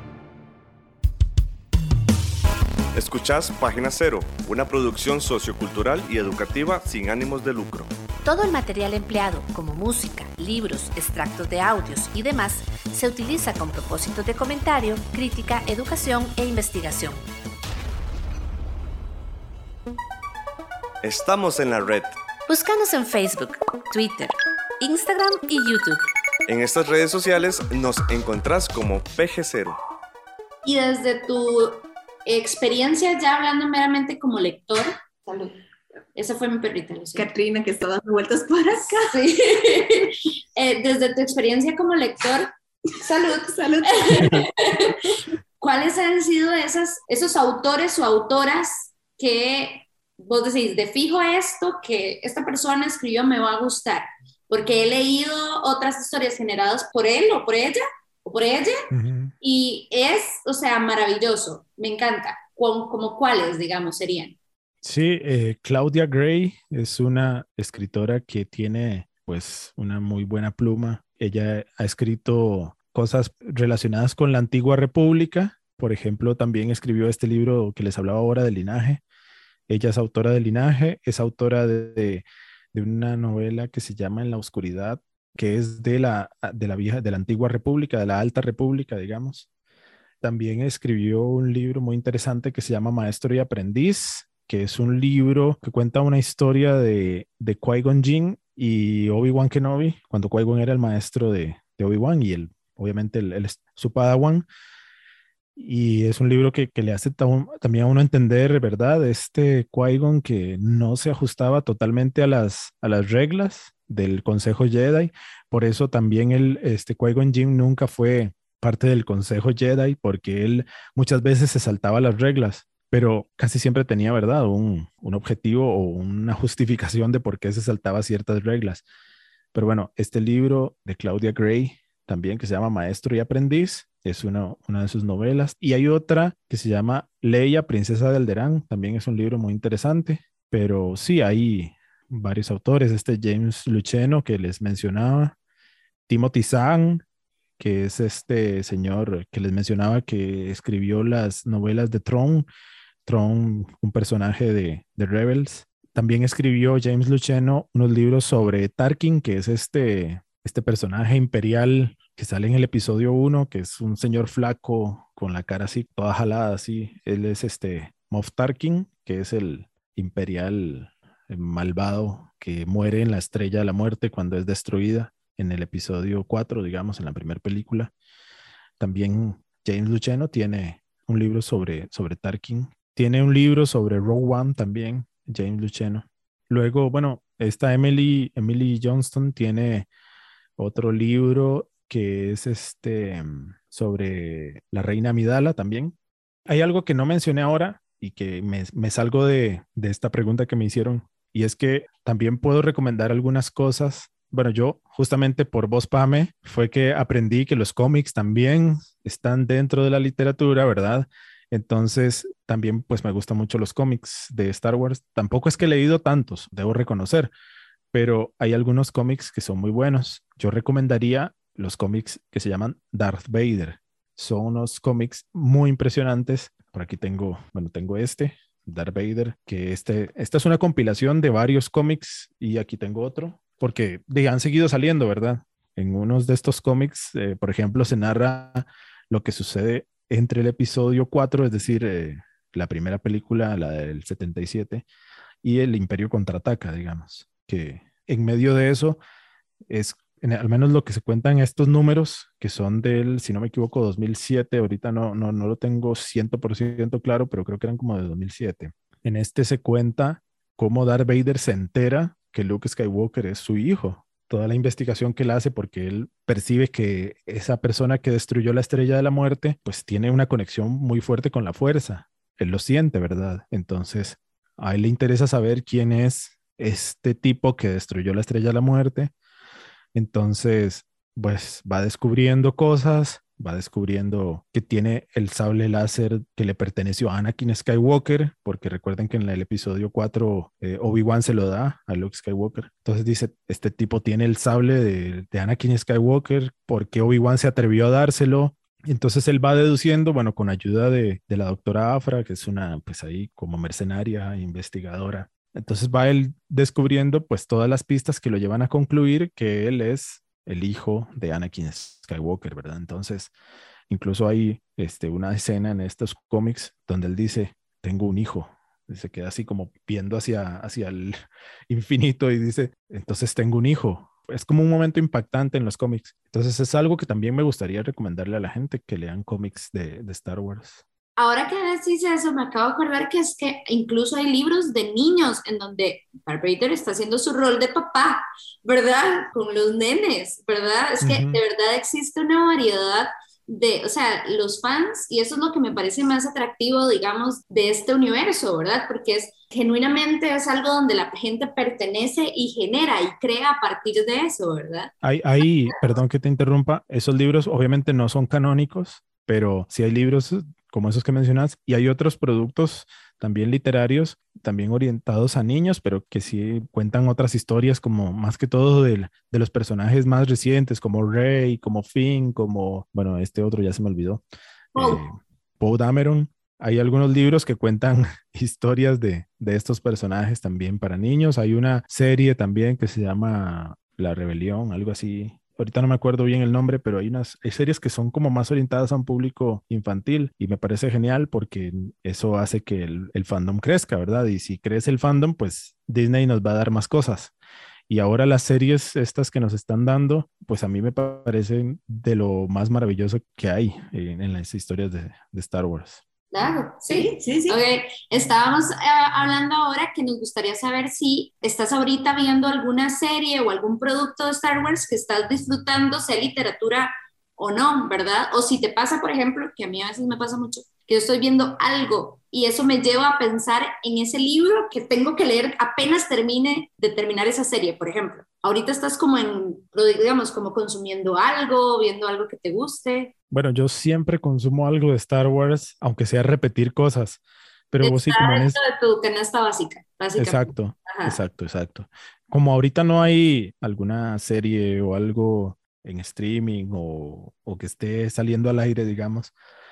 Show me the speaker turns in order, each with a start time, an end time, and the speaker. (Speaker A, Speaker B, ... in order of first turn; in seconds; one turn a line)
Speaker A: 2.9-7.9
Speaker B: 8.2-17.2
Speaker A: 21.0-22.2
Speaker B: 22.5-26.0
Speaker A: 26.5-29.8
Speaker C: 30.6-35.0
Speaker D: 35.3-35.5
Speaker C: 36.1-37.3
Speaker D: 37.1-39.2
Speaker C: 39.0-42.5
Speaker C: 43.0-58.8
Speaker D: 43.1-44.5
Speaker E: 58.9-59.3
Speaker C: 59.4-64.4
Speaker E: 64.8-79.0
Speaker E: 79.7-89.5
Speaker E: 90.2-104.5
Speaker E: 105.5-128.8
Speaker E: 129.5-145.3
Speaker E: 146.1-147.0
Speaker E: 147.6-152.5
Speaker E: 153.1-177.9
Speaker E: 178.8-189.9
Speaker E: 190.6-195.9
Speaker E: 196.5-217.3
Speaker E: 217.9-244.8
Speaker E: 245.4-249.0
Speaker E: 249.7-279.1
Speaker E: 279.9-313.3
Speaker E: 313.9-321.2
Speaker E: 321.7-330.8
Speaker C: 331.2-354.9
Speaker E: 341.0-341.4
Speaker E: 355.0-374.2
Speaker E: 374.7-397.3
Speaker D: 374.8-375.0
Speaker E: 397.9-406.0
Speaker C: 406.3-433.1
Speaker D: 406.9-407.6
Speaker E: 433.3-437.2
Speaker E: 437.7-438.6
Speaker C: 437.8-441.2
Speaker E: 440.2-449.3